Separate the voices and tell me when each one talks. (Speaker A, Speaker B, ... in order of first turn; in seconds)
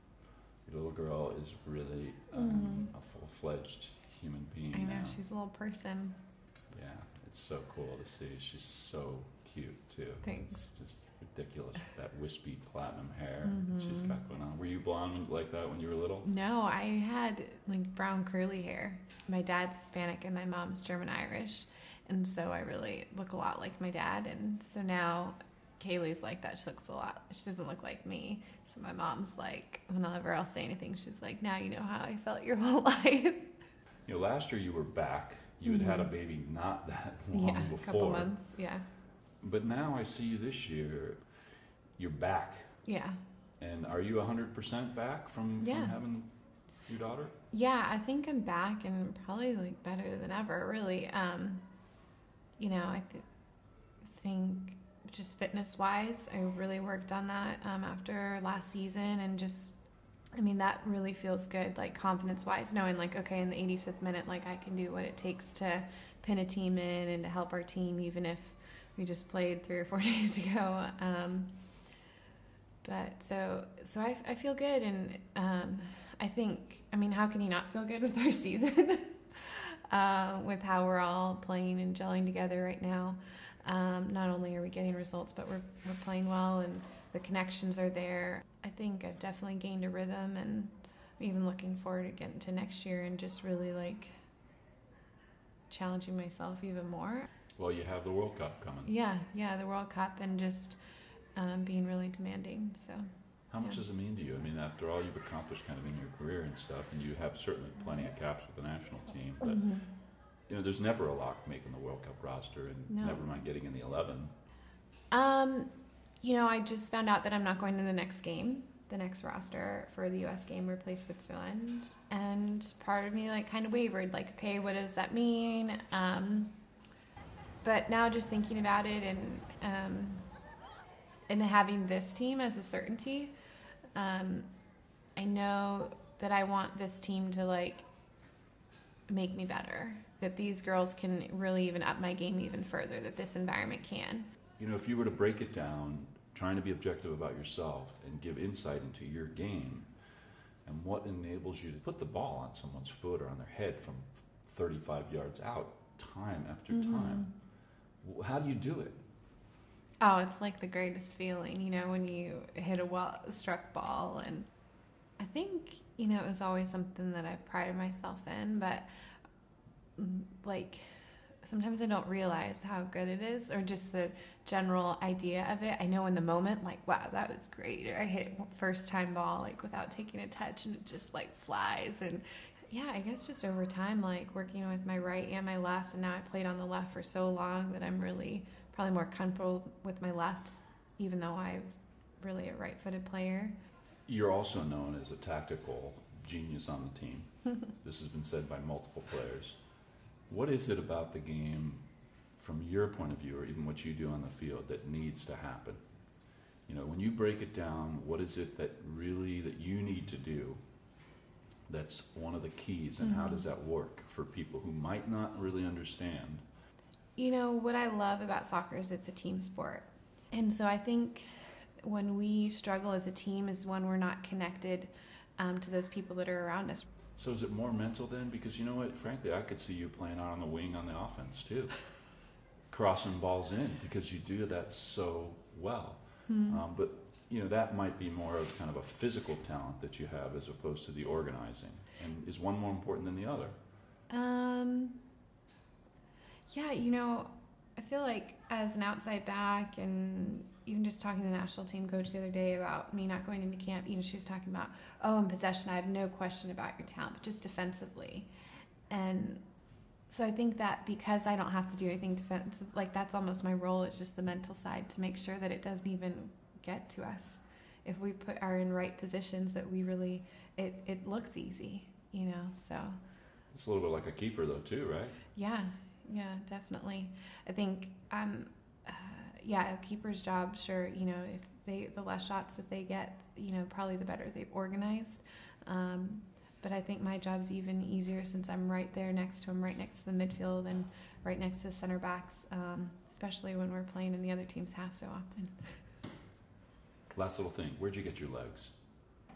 Speaker A: 0.7-5.2, 6.7-16.3, 34.1-38.4, 39.4-41.2, 42.0-42.8, 43.6-46.3, 46.9-47.4, 97.6-98.9, 103.5-109.8, 110.5-114.3, 144.6-149.9, 150.7-157.3, 158.0-159.0, 194.1-199.6, 200.3-205.8, 206.7-210.6, 211.7-216.4, 227.2-231.8, 232.7-243.6, 273.5-275.2, 297.1-298.8
Speaker B: 2.3-2.9, 4.7-6.2, 10.2-10.6, 13.4-14.2, 16.2-33.6, 35.6-36.1, 37.3-38.9, 42.9-43.2, 45.6-46.0, 47.5-51.6, 52.6-53.2, 54.0-59.8, 60.4-71.5, 72.8-94.1, 95.7-97.3, 98.8-100.8, 101.4-103.1, 109.4-109.9, 112.9-113.2, 115.1-115.7, 116.2-126.6, 127.6-130.3, 131.3-133.3, 133.9-134.5, 135.2-137.9, 139.1-144.3, 156.7-157.3, 160.0-164.5, 165.2-168.9, 170.0-193.6, 213.0-213.4, 217.2-226.8, 236.3-236.6, 244.1-245.0, 246.5-258.3, 258.9-259.4, 260.1-273.0, 275.4-295.8